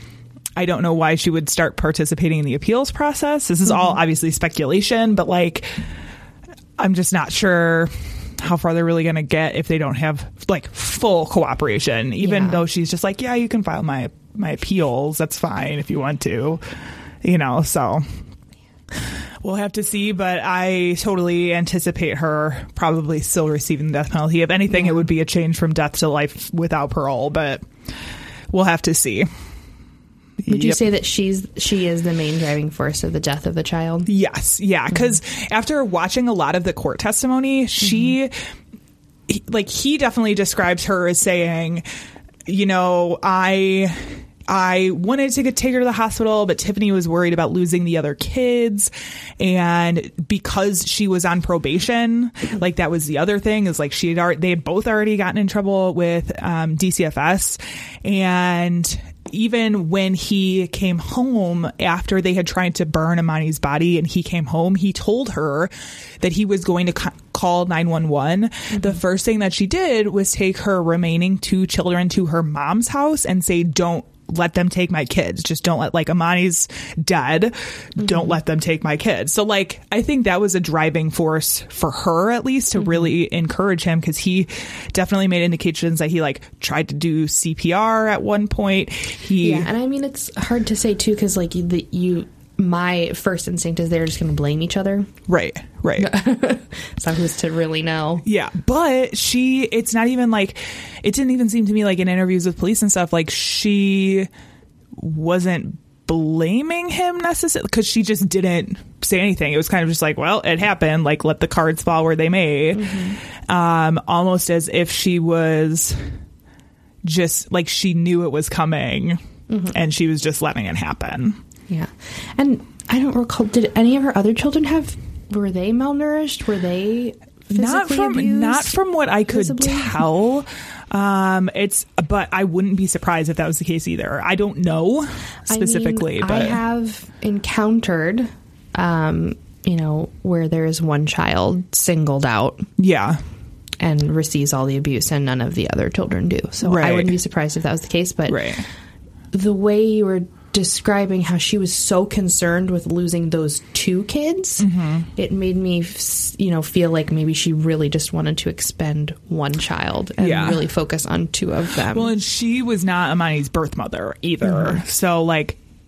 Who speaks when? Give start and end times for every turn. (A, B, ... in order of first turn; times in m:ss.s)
0:00.6-0:05.8 A
0:03.7-0:04.0 B
0:06.8-0:16.6 A
0:12.2-0:12.6 B
0:17.2-0:18.0 A
0:19.4-0:27.6 A
0:24.7-0:25.0 B
0:28.5-0:29.3 A
0:30.4-0:30.8 A
0:30.5-0:34.1 B
0:34.1-0:38.3 A
0:37.8-0:38.2 B
0:39.3-0:41.9 A
0:42.5-1:29.7 A
1:18.0-1:18.3 B
1:22.8-1:23.1 B
1:29.4-1:35.1 B
1:35.3-1:36.2 A
1:36.0-1:38.2 B
1:38.3-1:44.3 A
1:45.0-1:53.0 A
1:52.7-1:53.2 B
1:53.5-1:56.0 A
1:57.0-1:59.2 A
1:59.5-1:59.8 B
1:59.7-2:01.4 A
2:01.7-2:10.0 B
2:07.5-2:16.6 A
2:15.5-2:22.7 B
2:22.8-2:23.2 A
2:23.8-2:28.4 B
2:26.6-2:27.2 A
2:28.3-2:28.7 A
2:29.3-2:34.6 B
2:34.6-2:35.1 A
2:35.2-2:42.1 B
2:40.2-2:40.7 A
2:41.9-2:45.6 A
2:44.4-2:44.8 B